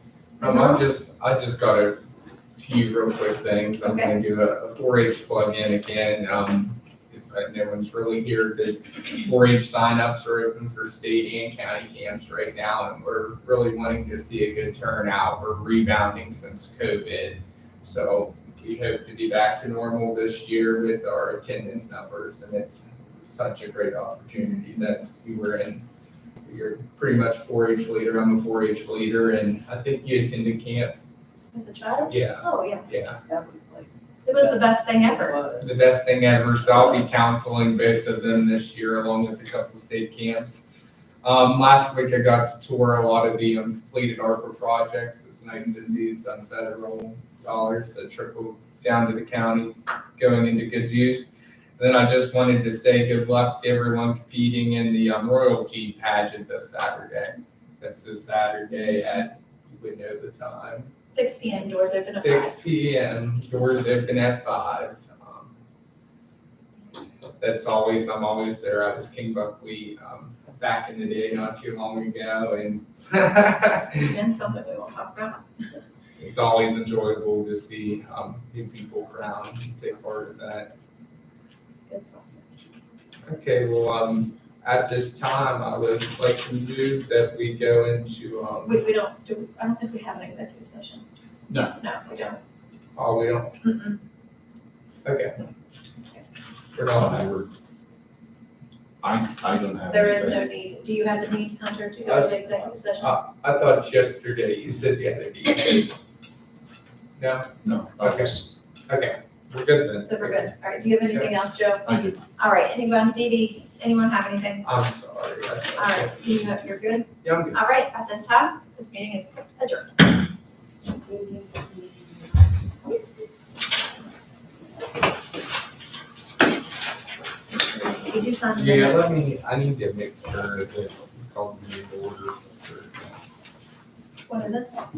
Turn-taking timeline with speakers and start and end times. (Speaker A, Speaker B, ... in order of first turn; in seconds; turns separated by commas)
Speaker A: 0.4-0.8, Speaker B: 0.4-2.0, Speaker B: 2.6-25.9, Speaker A: 3.8-4.2, Speaker B: 26.4-31.0, Speaker A: 31.5-32.9, Speaker B: 32.1-33.2, Speaker C: 33.3-35.7, Speaker A: 34.2-35.4, Speaker B: 35.6-40.6, Speaker B: 41.2-60.9, Speaker A: 61.1-62.6, Speaker B: 62.2-65.5, Speaker B: 67.4-74.1, Speaker A: 74.0-75.5, Speaker B: 76.2-80.7, Speaker A: 81.9-82.6, Speaker B: 83.2-88.8, Speaker A: 88.7-91.1, Speaker D: 91.5-91.8, Speaker A: 91.7-92.4, Speaker B: 93.0-93.6, Speaker A: 93.6-94.0, Speaker B: 95.0-95.3, Speaker B: 96.8-97.3, Speaker D: 96.9-97.5, Speaker D: 99.0-100.5, Speaker A: 99.9-103.2, Speaker B: 102.0-102.4, Speaker B: 103.0-105.9, Speaker B: 107.2-110.5, Speaker D: 107.6-108.5, Speaker A: 110.0-114.7, Speaker B: 111.1-111.3, Speaker D: 111.8-112.2, Speaker B: 114.6-116.4, Speaker A: 115.8-120.2, Speaker B: 117.2-117.6, Speaker C: 121.0-122.3, Speaker A: 127.7-129.2, Speaker B: 128.6-133.1, Speaker A: 134.3-134.7